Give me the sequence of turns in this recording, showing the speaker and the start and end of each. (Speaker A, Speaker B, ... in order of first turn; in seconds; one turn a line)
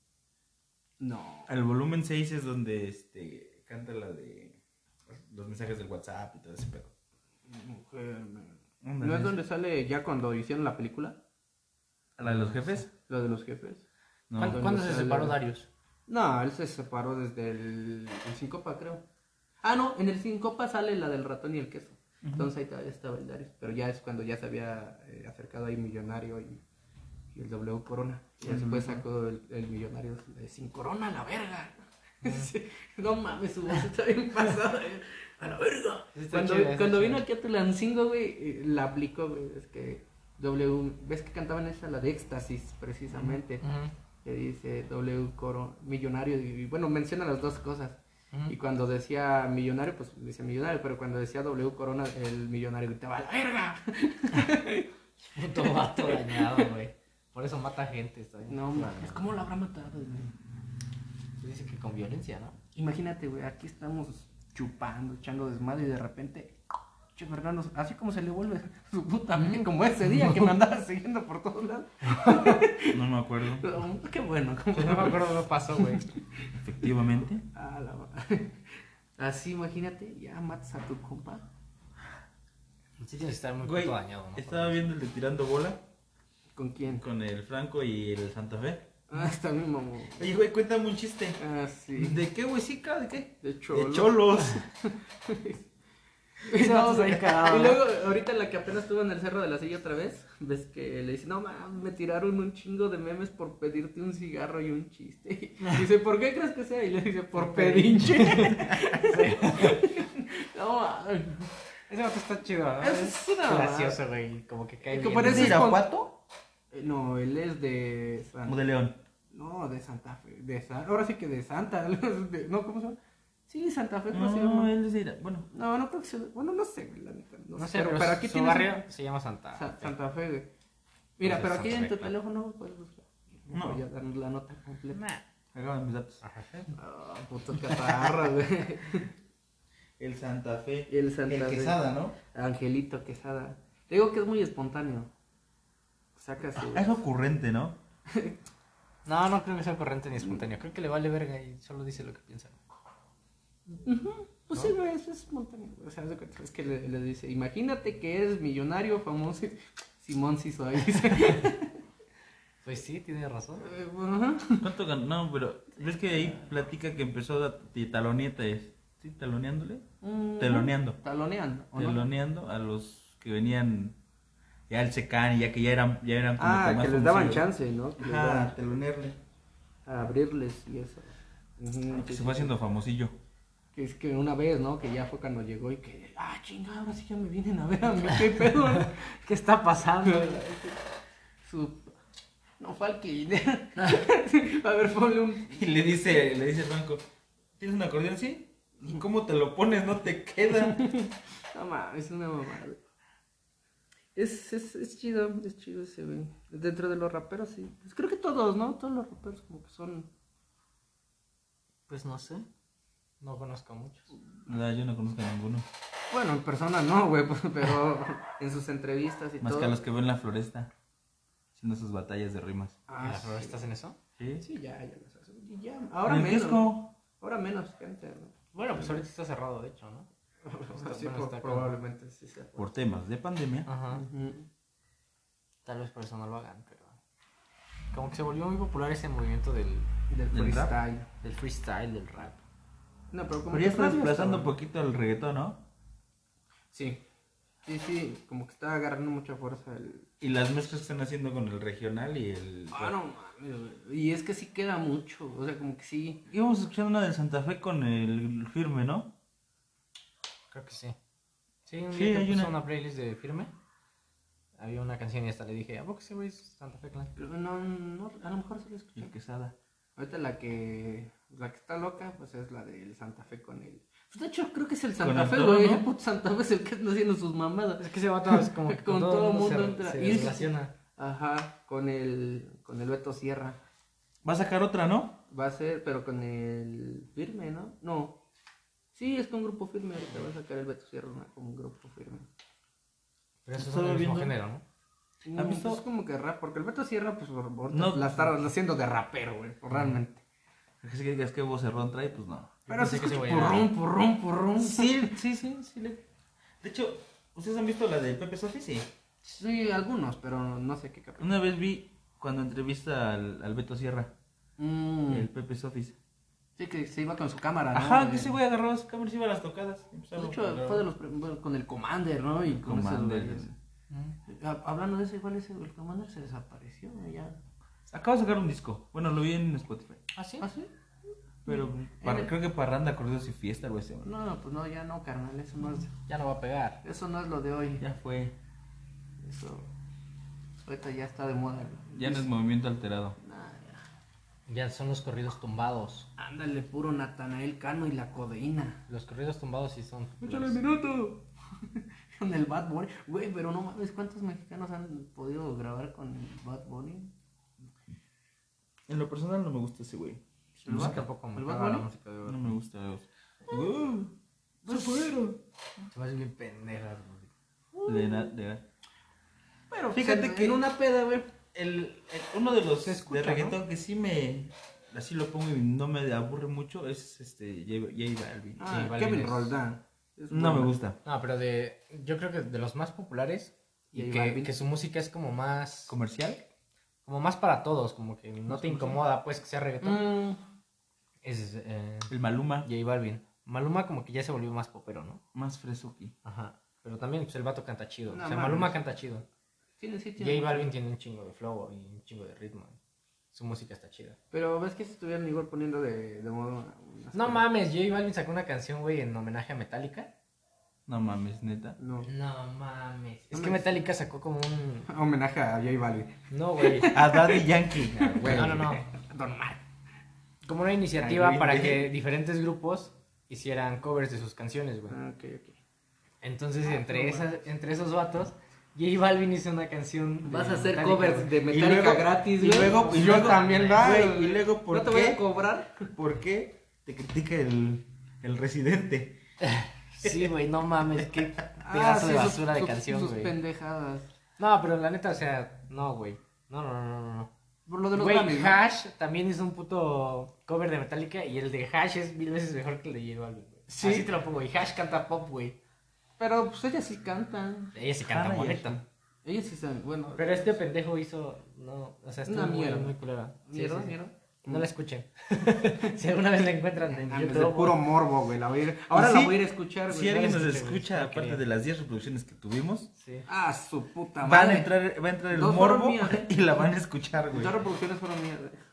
Speaker A: 1.0-1.5
Speaker B: 1.5-6.9
Speaker A: 7.5-11.2
Speaker B: 8.8-9.4
Speaker B: 12.2-12.9
Speaker A: 13.0-13.8
Speaker B: 14.3-14.6
Speaker C: 14.4-15.7
Speaker A: 14.4-15.4
Speaker A: 16.1-19.0
Speaker A: 19.6-26.6
Speaker B: 22.2-22.5
Speaker A: 27.3-43.6
Speaker B: 28.4-29.0
Speaker C: 36.1-37.3
Speaker C: 43.1-43.9
Speaker A: 44.2-56.7
Speaker C: 55.4-59.3
Speaker A: 58.5-60.3
Speaker C: 61.4-62.5
Speaker A: 62.8-66.6
Speaker A: 67.2-76.2
Speaker B: 72.9-73.7
Speaker C: 74.7-76.1
Speaker B: 76.6-77.5
Speaker A: 77.5-81.5
Speaker C: 83.0-84.9
Speaker B: 83.6-85.8
Speaker A: 86.6-87.0
Speaker B: 87.0-88.9
Speaker A: 89.1-90.3
Speaker B: 90.2-91.4
Speaker A: 91.4-92.2
Speaker B: 92.0-94.6
Speaker A: 93.4-95.6
Speaker A: 96.4-111.5
Speaker C: 96.5-97.8
Speaker C: 107.3-109.8
Speaker C: 111.9-115.7
Speaker A: 112.8-114.0
Speaker A: 114.9-115.9
Speaker B: 115.2-116.2
Speaker A: 116.7-118.6
Speaker B: 118.5-119.0
Speaker A: 119.3-123.0
Speaker A: 123.5-124.7
Speaker B: 124.1-125.5
Speaker A: 125.5-128.9
Speaker C: 127.6-129.9
Speaker A: 129.6-130.5
Speaker A: 131.2-135.0
Speaker C: 131.2-132.1
Speaker B: 133.5-133.8
Speaker C: 134.9-135.2
Speaker B: 135.5-136.2
Speaker C: 136.2-136.8
Speaker A: 136.8-139.1
Speaker B: 137.6-138.2
Speaker B: 140.0-142.2
Speaker A: 140.9-145.1
Speaker A: 146.2-147.0
Speaker B: 146.6-147.8
Speaker A: 148.1-148.4
Speaker C: 149.1-152.6
Speaker A: 153.7-161.8
Speaker C: 162.6-163.7
Speaker A: 163.6-164.7
Speaker B: 164.6-169.9
Speaker A: 170.0-172.1
Speaker B: 170.4-171.0
Speaker B: 171.8-174.0
Speaker B: 174.7-177.4
Speaker A: 176.4-178.6
Speaker B: 178.0-179.2
Speaker A: 179.9-182.5
Speaker B: 181.9-183.2
Speaker A: 183.7-189.0
Speaker C: 189.0-190.5
Speaker A: 190.1-190.8
Speaker A: 191.4-191.9
Speaker A: 192.6-195.6
Speaker B: 195.5-197.0
Speaker B: 197.6-200.8
Speaker A: 200.6-202.8
Speaker A: 204.2-210.1
Speaker C: 211.9-212.5
Speaker C: 213.2-214.1
Speaker B: 214.5-215.7
Speaker A: 216.1-219.8
Speaker B: 219.4-220.7
Speaker B: 221.6-222.8
Speaker A: 222.9-223.6
Speaker C: 223.0-224.0
Speaker B: 224.2-224.4
Speaker A: 224.4-229.0
Speaker B: 226.1-226.9
Speaker C: 228.5-230.1
Speaker A: 230.4-232.7
Speaker C: 230.7-231.7
Speaker B: 232.6-233.7
Speaker C: 233.7-234.0
Speaker A: 233.9-234.5
Speaker C: 235.7-237.0
Speaker C: 237.9-239.9
Speaker A: 240.1-241.1
Speaker B: 240.3-240.8
Speaker C: 241.2-242.4
Speaker A: 243.1-244.6
Speaker B: 243.5-245.6
Speaker A: 246.7-247.0
Speaker A: 247.7-250.1
Speaker B: 250.2-252.9
Speaker A: 252.7-256.2
Speaker B: 256.3-259.1
Speaker C: 260.5-261.0
Speaker C: 261.7-263.5
Speaker B: 261.9-262.5
Speaker C: 264.6-267.1
Speaker A: 267.2-269.1
Speaker B: 269.0-269.6
Speaker A: 270.0-283.6
Speaker B: 275.0-275.9
Speaker C: 277.8-280.7
Speaker B: 284.2-285.2
Speaker A: 285.3-288.2
Speaker A: 288.9-292.3
Speaker C: 293.4-294.6
Speaker B: 293.6-294.3
Speaker A: 295.2-300.2
Speaker B: 295.3-295.8
Speaker B: 297.7-298.2
Speaker B: 300.8-302.6
Speaker C: 302.7-303.7
Speaker A: 302.7-305.2
Speaker B: 304.6-306.0
Speaker B: 306.6-308.9
Speaker A: 309.2-311.4
Speaker B: 311.2-314.1
Speaker A: 314.6-315.3
Speaker B: 315.1-316.0
Speaker A: 316.6-318.4
Speaker B: 317.7-320.8
Speaker A: 320.2-323.5
Speaker B: 322.5-323.5
Speaker A: 324.2-327.4
Speaker B: 327.9-330.0
Speaker C: 330.1-330.5
Speaker A: 330.4-330.7
Speaker A: 331.4-332.3
Speaker B: 331.5-334.1
Speaker A: 334.1-335.9
Speaker C: 336.1-336.8
Speaker A: 336.8-337.8
Speaker B: 337.8-338.3
Speaker A: 339.2-339.7
Speaker A: 340.6-342.3
Speaker B: 341.9-343.2
Speaker A: 343.2-343.8
Speaker C: 344.5-346.1
Speaker A: 346.2-348.8
Speaker C: 348.9-350.6
Speaker A: 350.2-357.1
Speaker B: 358.9-361.0
Speaker C: 360.6-362.5
Speaker A: 360.7-361.9
Speaker B: 362.2-364.1
Speaker A: 364.6-365.3
Speaker B: 364.7-365.4
Speaker C: 365.9-367.3
Speaker A: 367.7-368.3
Speaker B: 367.9-368.6
Speaker A: 369.7-371.3
Speaker B: 369.9-370.6
Speaker B: 371.5-378.7
Speaker C: 372.8-373.6
Speaker A: 378.6-380.8
Speaker C: 378.7-379.5
Speaker B: 380.3-381.0
Speaker C: 381.1-385.9
Speaker A: 383.9-384.6
Speaker B: 385.9-386.4
Speaker C: 387.1-390.1
Speaker B: 388.5-389.0
Speaker A: 389.8-390.4
Speaker C: 391.2-395.2
Speaker B: 392.1-392.7
Speaker B: 395.4-396.1
Speaker C: 396.2-399.2
Speaker A: 398.1-398.8
Speaker A: 399.8-400.7
Speaker C: 400.2-402.8
Speaker C: 403.3-404.2
Speaker A: 404.3-407.4
Speaker C: 407.1-410.1
Speaker B: 410.9-411.8
Speaker A: 411.8-412.1
Speaker C: 412.0-414.9
Speaker A: 413.3-413.8
Speaker A: 414.9-419.6
Speaker C: 416.3-416.9
Speaker B: 416.9-418.7
Speaker C: 418.0-418.9
Speaker C: 420.4-425.0
Speaker B: 421.0-421.9
Speaker A: 424.9-425.6
Speaker C: 426.2-431.3
Speaker A: 426.6-427.3
Speaker A: 430.2-435.9
Speaker B: 431.5-435.2
Speaker C: 432.6-433.9
Speaker B: 435.9-439.2
Speaker C: 439.4-443.3
Speaker B: 440.0-440.3
Speaker A: 441.6-444.1
Speaker C: 444.4-447.3
Speaker A: 447.7-448.6
Speaker C: 447.9-455.6
Speaker A: 453.7-454.1
Speaker A: 456.2-457.7
Speaker C: 457.7-458.8
Speaker B: 458.1-458.8
Speaker A: 459.2-460.6
Speaker C: 460.2-467.9
Speaker A: 462.3-462.9
Speaker A: 463.5-464.7
Speaker A: 466.9-470.3
Speaker B: 468.9-472.9
Speaker C: 470.1-471.4
Speaker C: 473.0-473.3
Speaker A: 473.3-474.7
Speaker B: 474.2-477.5
Speaker A: 475.3-476.6
Speaker A: 477.3-478.6